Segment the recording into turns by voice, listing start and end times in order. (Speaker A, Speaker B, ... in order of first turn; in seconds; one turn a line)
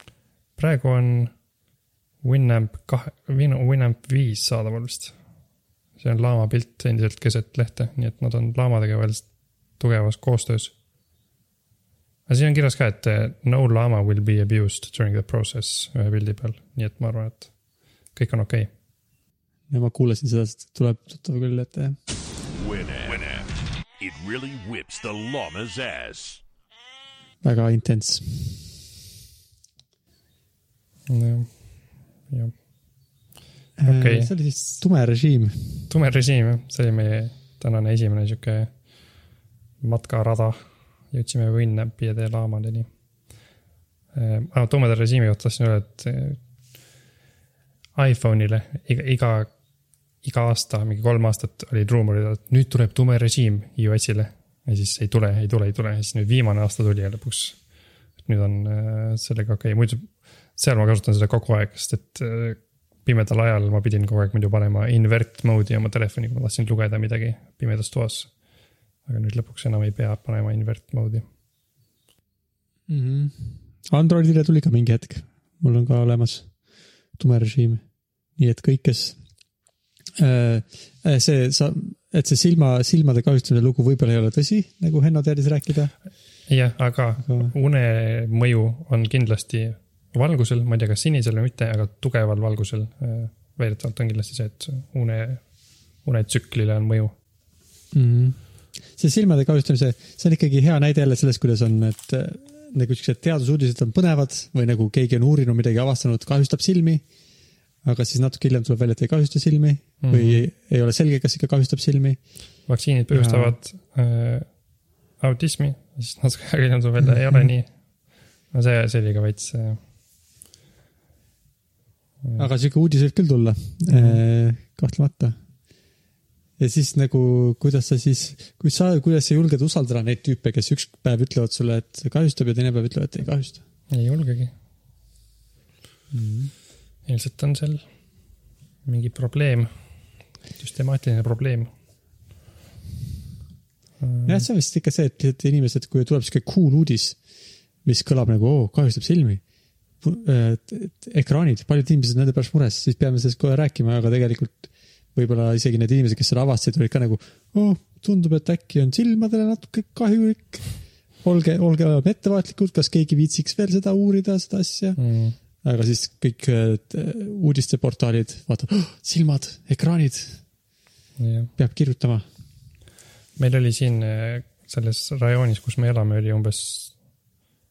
Speaker A: 0.6-1.3
Speaker A: 2.2-5.2
Speaker A: 6.0-10.7
Speaker A: 12.3-17.6
Speaker A: 18.1-18.7
Speaker B: 19.7-22.0
Speaker C: 22.6-23.5
Speaker C: 24.0-26.4
Speaker B: 27.4-28.7
Speaker A: 31.1-32.5
Speaker B: 33.8-35.9
Speaker A: 33.9-34.3
Speaker A: 35.9-38.7
Speaker A: 39.8-42.9
Speaker A: 44.1-46.4
Speaker A: 48.0-49.5
Speaker A: 50.2-57.6
Speaker A: 58.2-68.3
Speaker A: 69.0-71.2
Speaker B: 72.9-76.5
Speaker B: 77.1-77.8
Speaker B: 78.4-79.2
Speaker B: 80.2-85.9
Speaker A: 86.5-95.4
Speaker B: 87.2-87.5
Speaker A: 96.0-97.2
Speaker B: 97.9-98.4
Speaker B: 98.9-107.0
Speaker B: 107.8-112.2
Speaker A: 110.0-110.5
Speaker A: 112.7-114.5
Speaker B: 113.1-113.6
Speaker A: 115.2-118.0
Speaker B: 117.0-117.5
Speaker A: 118.5-119.8
Speaker B: 122.4-125.4
Speaker A: 123.9-124.2
Speaker B: 126.6-133.6
Speaker A: 133.9-134.5
Speaker B: 136.1-136.5
Speaker A: 137.1-137.9
Speaker A: 138.8-139.7
Speaker A: 140.6-141.7
Speaker A: 144.0-144.5
Speaker B: 144.3-147.2
Speaker B: 147.8-149.4
Speaker B: 150.0-165.0
Speaker A: 165.0-165.4
Speaker B: 165.6-170.4
Speaker A: 171.2-171.5
Speaker B: 171.6-172.2
Speaker A: 173.4-177.0